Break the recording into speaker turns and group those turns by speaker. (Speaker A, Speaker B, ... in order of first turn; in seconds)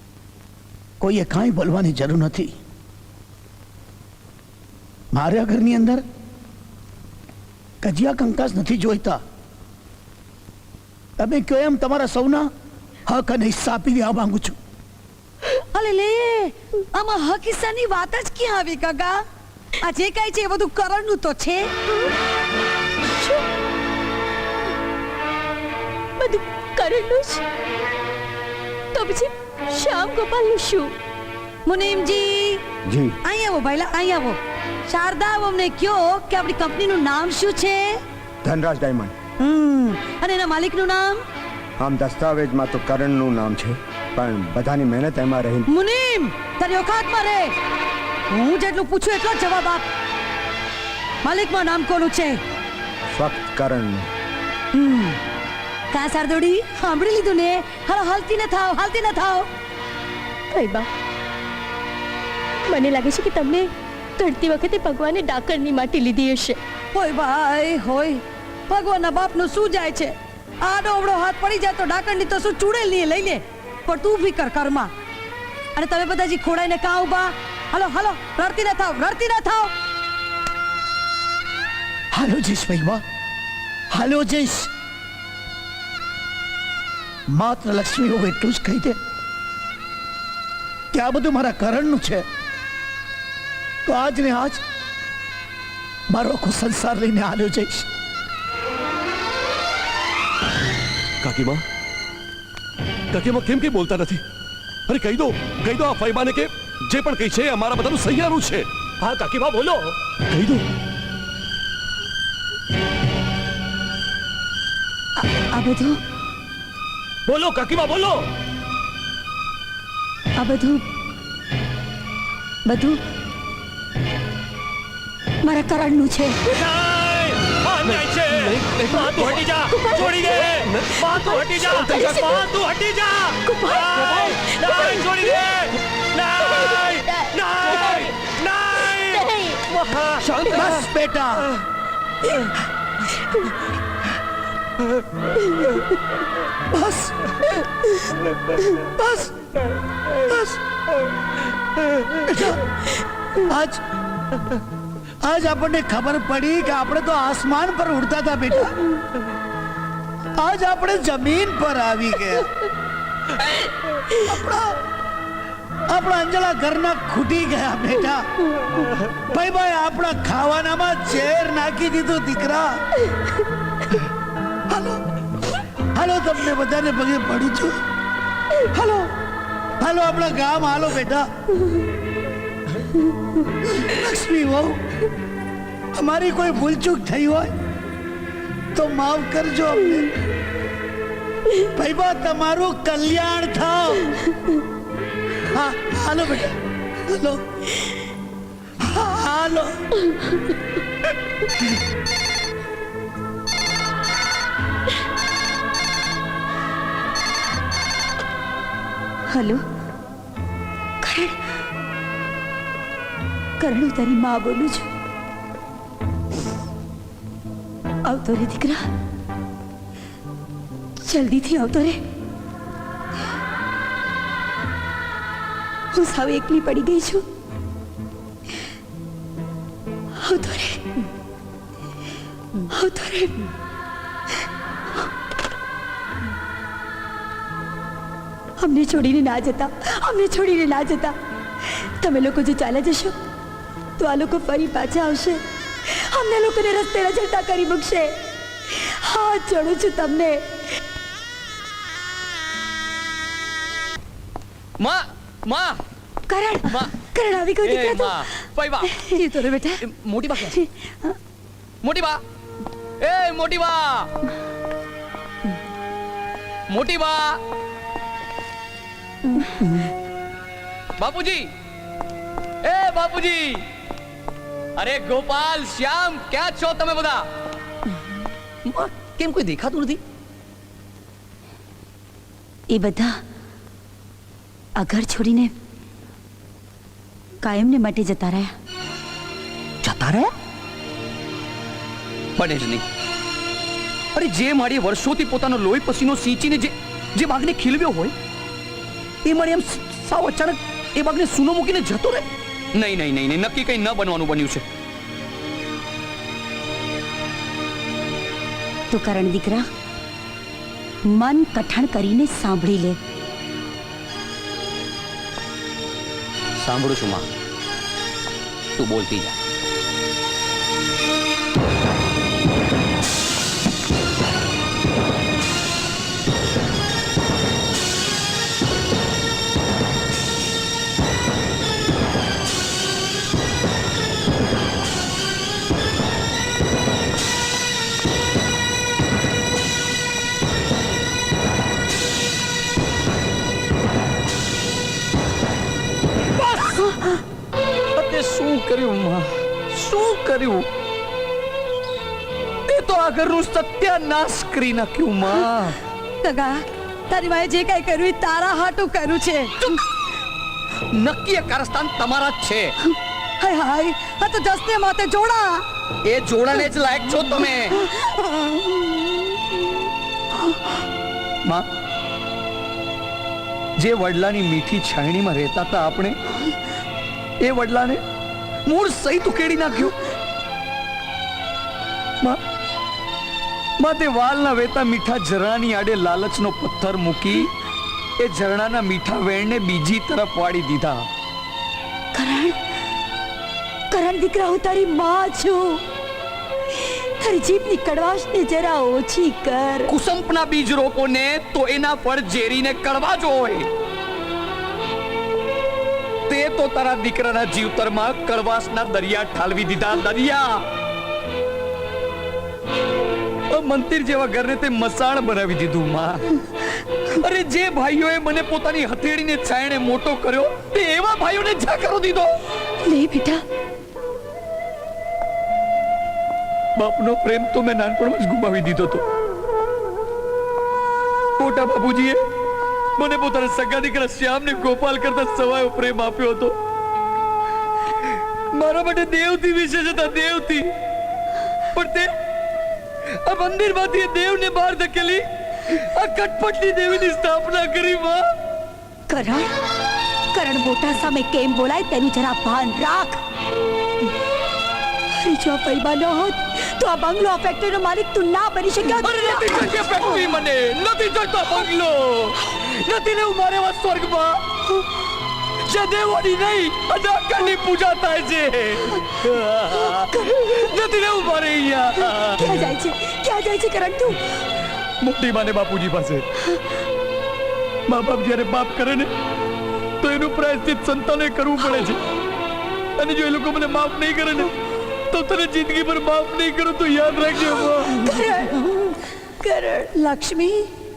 Speaker A: 1.0-2.5, 5.1-6.0, 7.8-9.2, 11.2-12.5, 13.1-14.6, 82.1-83.0, 83.9-84.7, 87.3-89.0, 90.9-92.2, 93.8-94.6, 96.1-97.8, 140.2-141.5, 146.7-147.1, 149.0-149.3, 150.3-150.6, 152.3-152.6, 153.4-153.8, 155.2-158.8, 160.4-162.5, 164.2-164.8, 165.9-168.2, 169.3-172.8, 174.7-175.0, 175.9-177.8, 178.7-179.1, 179.8-181.3, 183.7-184.8, 185.9-187.5, 188.7-190.1, 191.7-194.2, 195.5-196.5, 197.1-197.8, 198.8-199.8
Speaker B: 15.6-19.2, 19.8-21.7, 31.6-32.6, 33.2-38.0, 39.4-41.2, 45.7-47.5, 48.3-49.8, 51.2-52.4, 54.7-55.2, 55.9-59.5, 66.9-74.9, 75.8-79.7, 259.3-259.8, 356.2-359.8, 363.4-365.6, 488.1-488.9, 489.9-490.7
Speaker C: 23.1-23.4, 26.2-27.4, 28.9-30.9, 60.5-60.9, 62.7-66.6, 129.8-130.4, 131.1-132.4, 133.5-134.9, 137.1-138.1, 139.1-139.6
Speaker D: 32.9-33.2, 38.4-39.1, 41.8-45.7, 53.1-54.1
Speaker E: 101.2-101.6, 103.1-104.2, 104.9-108.6, 110.3-110.6
Speaker F: 109.0-109.9, 117.3-118.2, 126.5-140.6
Speaker G: 115.2-116.0, 120.4-120.8, 122.7-123.0, 125.4-126.4, 209.3-209.6, 211.0-211.3, 213.6-214.9, 218.0-218.9, 221.0-222.0, 225.9-227.2, 230.2-230.8, 232.7-233.5, 238.6-243.2, 244.0-248.2, 248.7-250.6, 256.3-258.3, 260.6-261.1, 269.3-269.9, 282.7-283.2, 284.8-285.5, 287.4-288.5, 308.9-309.7, 311.0-313.0, 392.1-392.6, 393.9-395.8, 396.7-399.9, 422.8-423.4, 449.1-449.5, 450.3-453.2, 455.1-460.3, 469.8-470.6, 472.3-474.2, 488.0-488.6, 489.4-490.0
Speaker H: 254.8-255.8, 256.6-256.9, 257.6-260.6, 261.8-262.2, 263.0-264.1, 266.7-267.4, 271.0-271.5, 272.6-273.6, 274.8-277.3, 278.6-280.0, 289.8-290.3, 292.4-292.8, 294.1-298.1, 299.2-304.6, 316.6-317.2, 318.8-319.4, 346.4-346.8, 347.9-350.6, 352.7-355.8, 360.9-362.7, 366.0-367.8, 373.8-376.1, 377.4-378.0, 378.7-379.9, 383.8-387.5, 388.2-391.1, 399.9-403.7, 406.3-410.6, 413.5-416.2, 417.1-422.3, 426.8-429.0, 431.4-432.2, 433.0-436.5, 438.5-440.7, 441.7-442.1, 443.1-448.2, 458.9-464.5, 465.6-472.7, 475.0-476.2, 477.9-479.1, 480.0-482.0, 483.0-484.5, 485.1-488.2